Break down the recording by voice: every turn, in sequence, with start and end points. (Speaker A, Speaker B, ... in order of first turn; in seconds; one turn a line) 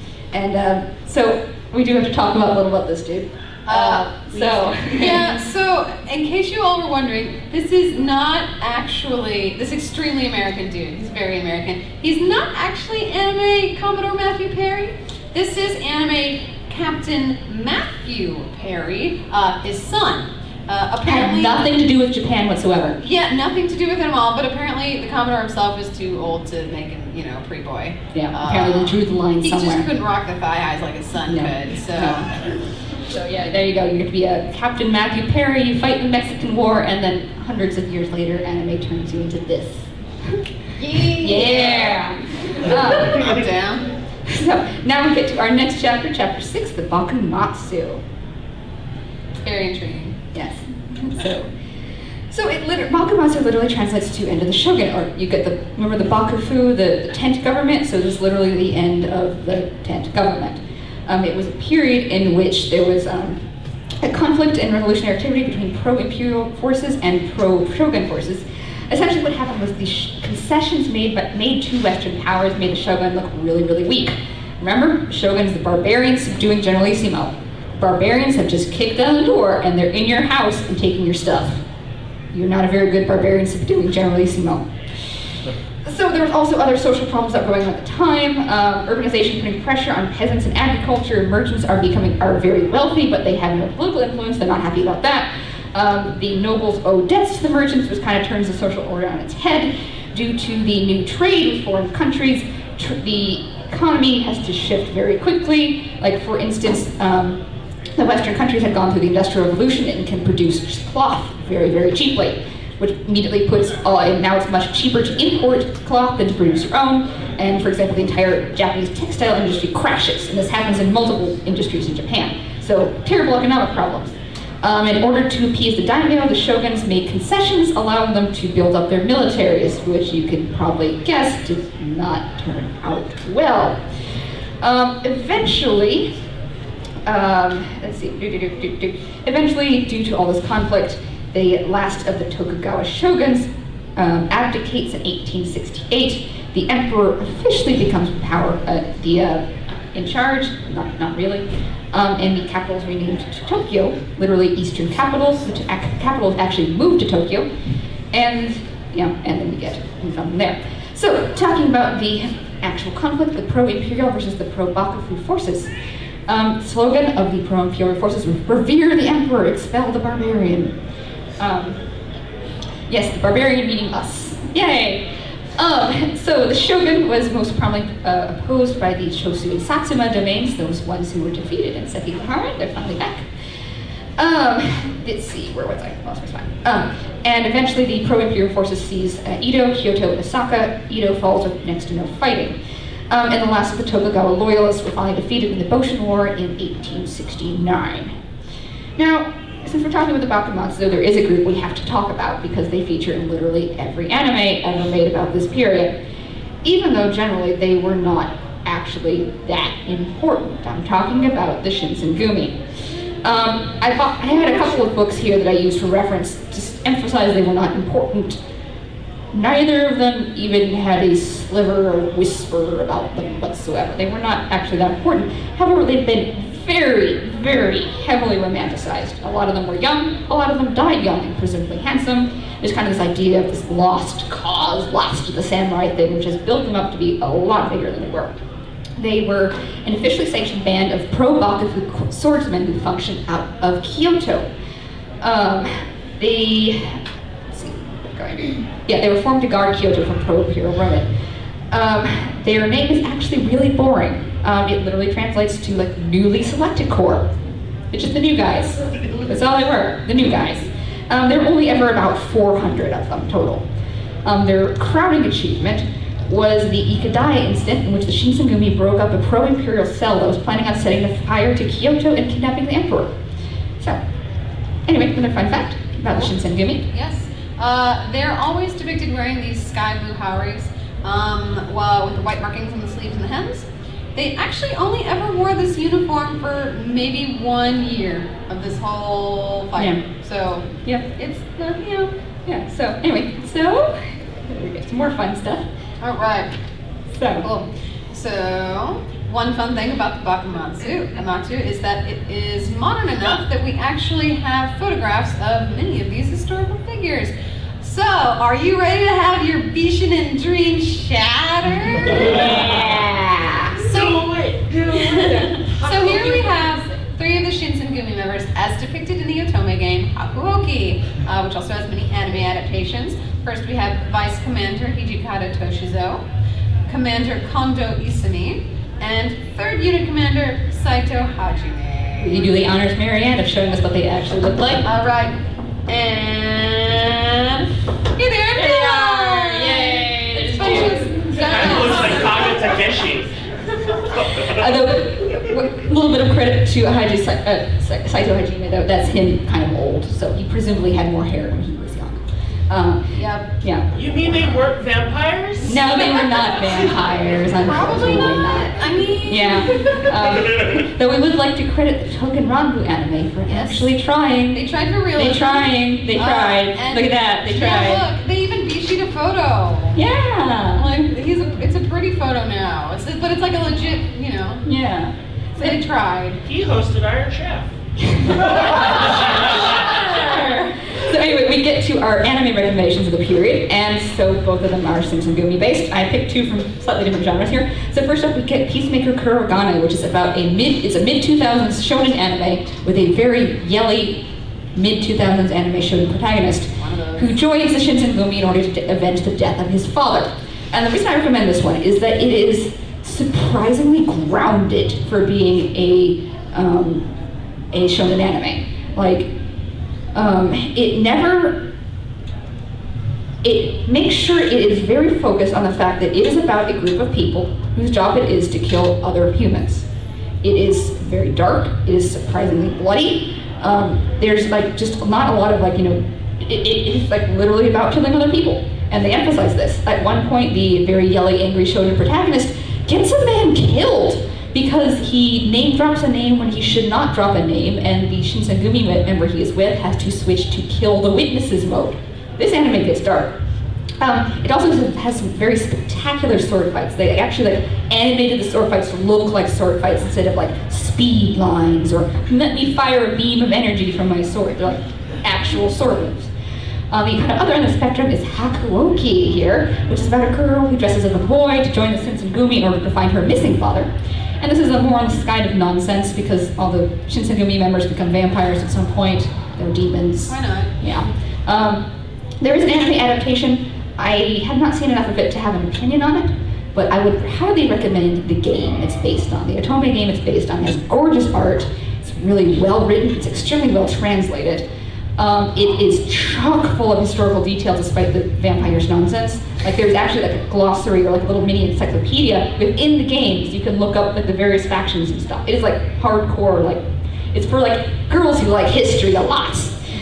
Speaker A: 0.3-5.3
Speaker B: 3.7-21.6
Speaker A: 21.0-23.0
Speaker B: 23.0-32.3
Speaker A: 28.1-29.8
Speaker A: 31.3-32.2
Speaker A: 33.1-40.4
Speaker B: 40.8-43.9
Speaker A: 41.0-43.4
Speaker A: 44.3-48.0
Speaker B: 49.4-50.2
Speaker A: 50.3-51.5
Speaker A: 52.3-63.4
Speaker A: 64.0-81.6
Speaker A: 82.3-84.6
Speaker A: 85.8-107.4
Speaker A: 107.9-133.8
Speaker A: 134.6-136.1
Speaker A: 137.1-157.5
Speaker A: 158.1-165.7
Speaker A: 166.3-170.7
Speaker A: 171.4-171.8
Speaker A: 172.9-183.3
Speaker A: 184.2-192.6
Speaker A: 193.1-198.1
Speaker A: 199.0-205.9
Speaker A: 206.6-212.6
Speaker A: 213.2-218.4
Speaker A: 219.3-238.3
Speaker A: 239.0-244.5
Speaker A: 245.2-247.0
Speaker A: 247.5-251.1
Speaker A: 251.7-257.3
Speaker A: 257.9-263.6
Speaker A: 264.2-273.1
Speaker A: 274.9-276.8
Speaker B: 276.9-292.1
Speaker A: 289.8-290.0
Speaker A: 290.8-291.1
Speaker A: 292.4-295.6
Speaker B: 296.0-296.5
Speaker A: 297.1-297.4
Speaker B: 297.4-312.6
Speaker A: 311.9-313.8
Speaker C: 313.8-315.3
Speaker B: 313.8-314.2
Speaker B: 314.9-326.2
Speaker A: 315.2-316.6
Speaker B: 326.9-332.5
Speaker A: 332.2-334.9
Speaker B: 334.8-342.6
Speaker A: 338.5-342.1
Speaker C: 341.4-343.3
Speaker C: 343.9-344.7
Speaker A: 344.4-354.0
Speaker B: 353.1-353.5
Speaker C: 353.9-356.9
Speaker A: 355.6-364.6
Speaker B: 357.6-360.1
Speaker C: 360.1-360.8
Speaker B: 363.5-363.8
Speaker B: 364.5-370.0
Speaker A: 365.1-368.1
Speaker A: 369.9-370.9
Speaker B: 370.7-374.6
Speaker A: 374.6-375.8
Speaker B: 375.6-376.4
Speaker C: 376.4-377.7
Speaker A: 378.0-407.1
Speaker C: 378.3-379.8
Speaker B: 378.8-380.7
Speaker B: 396.8-397.3
Speaker A: 407.7-409.3
Speaker A: 410.1-411.6
Speaker A: 413.4-419.9
Speaker A: 420.4-443.3
Speaker A: 444.0-456.3
Speaker A: 456.9-471.9
Speaker B: 470.3-470.7
Speaker A: 472.4-484.6
Speaker A: 485.2-499.8